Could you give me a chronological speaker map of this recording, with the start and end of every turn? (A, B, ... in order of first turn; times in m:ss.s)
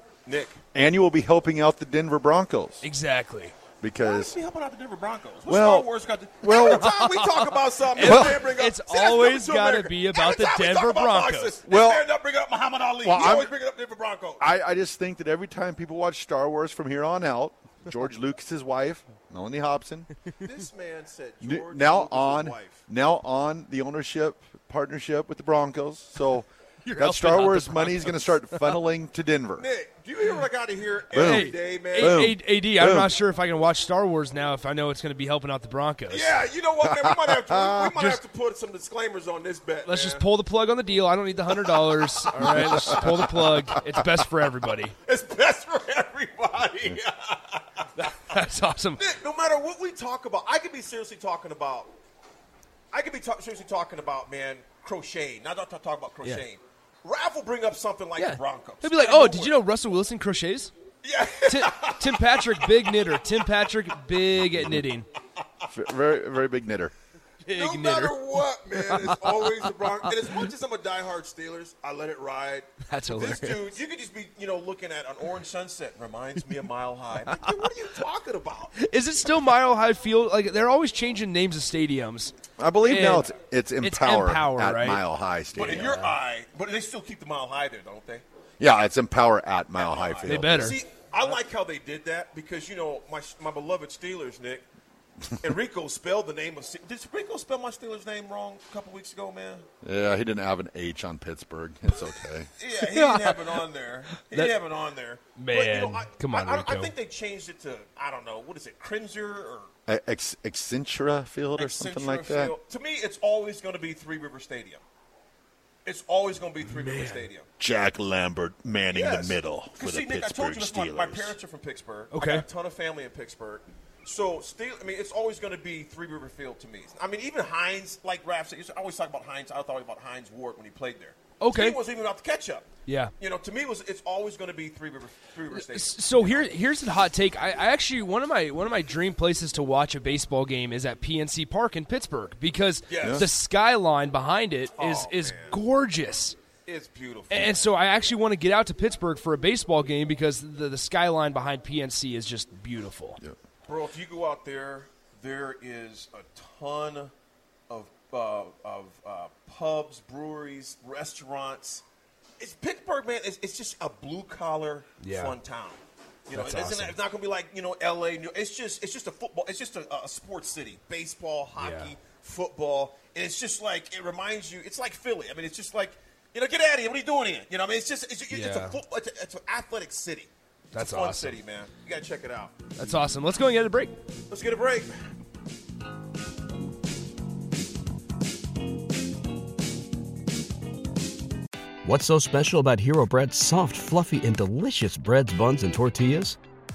0:00.2-0:00.6 A
0:00.7-0:02.8 B
0:02.8-0:03.5 C
0:03.8-0:04.3 B
0:04.0-0:14.4 A
0:05.5-0:05.9 B
0:06.4-0:06.9 B
0:06.6-0:07.3 C
0:07.8-0:11.5 C
0:08.0-0:08.4 B
0:11.6-0:12.0 B
0:13.0-0:13.5 B
0:14.4-0:20.1 B
0:20.4-0:22.7 A
0:21.4-0:29.6 B
0:26.8-0:28.8 C
0:29.6-0:32.0 A
0:31.1-0:33.1 B
0:31.1-0:36.4 C
0:36.1-0:40.2 A
0:36.8-0:37.9 B
0:37.9-0:38.2 C
0:39.8-0:44.9 C
0:42.4-0:42.9 B
0:42.4-0:43.2 A
0:45.0-0:47.8 A
0:48.0-0:49.0 C
0:49.0-0:51.9 A
0:52.9-0:59.5 A
0:58.2-1:00.7 C
1:01.0-1:03.0 A
1:01.4-1:05.1 C
1:04.5-1:04.8 B
1:05.7-1:06.9 B
1:07.4-1:09.5 C
1:07.5-1:18.7 A
1:10.0-1:10.4 C
1:12.9-1:13.8 C
1:17.3-1:17.5 C
1:18.8-1:23.3 C
1:22.6-1:26.0 B
1:23.8-1:25.0 C
1:25.6-1:28.2 A
1:25.6-1:26.1 C
1:28.6-1:30.8 B
1:29.8-1:34.7 A
1:30.2-1:30.8 C
1:35.4-1:39.6 A
1:39.8-1:42.5 B
1:42.6-1:49.7 A
1:42.8-1:43.5 C
1:44.1-1:44.6 C
1:45.4-1:46.9 C
1:49.9-1:52.5 B
1:51.6-1:54.8 A
1:55.8-1:57.4 A
1:56.6-1:57.3 C
1:57.6-2:01.4 B
1:58.9-2:12.7 A
2:02.1-2:02.4 C
2:11.4-2:11.8 C
2:12.8-2:13.1 C
2:13.2-2:16.5 A
2:15.5-2:26.4 C
2:22.9-2:23.1 A
2:23.0-2:23.3 B
2:24.8-2:25.6 A
2:26.7-2:27.6 A
2:27.3-2:33.2 C
2:33.6-2:37.1 A
2:37.7-2:41.8 A
2:42.4-3:03.0 A
2:45.0-2:45.4 C
2:46.3-2:47.0 C
2:51.6-2:51.9 C
2:58.3-2:58.8 C
3:00.7-3:01.4 C
3:02.8-3:04.0 C
3:04.3-3:04.9 A
3:11.8-3:16.4 D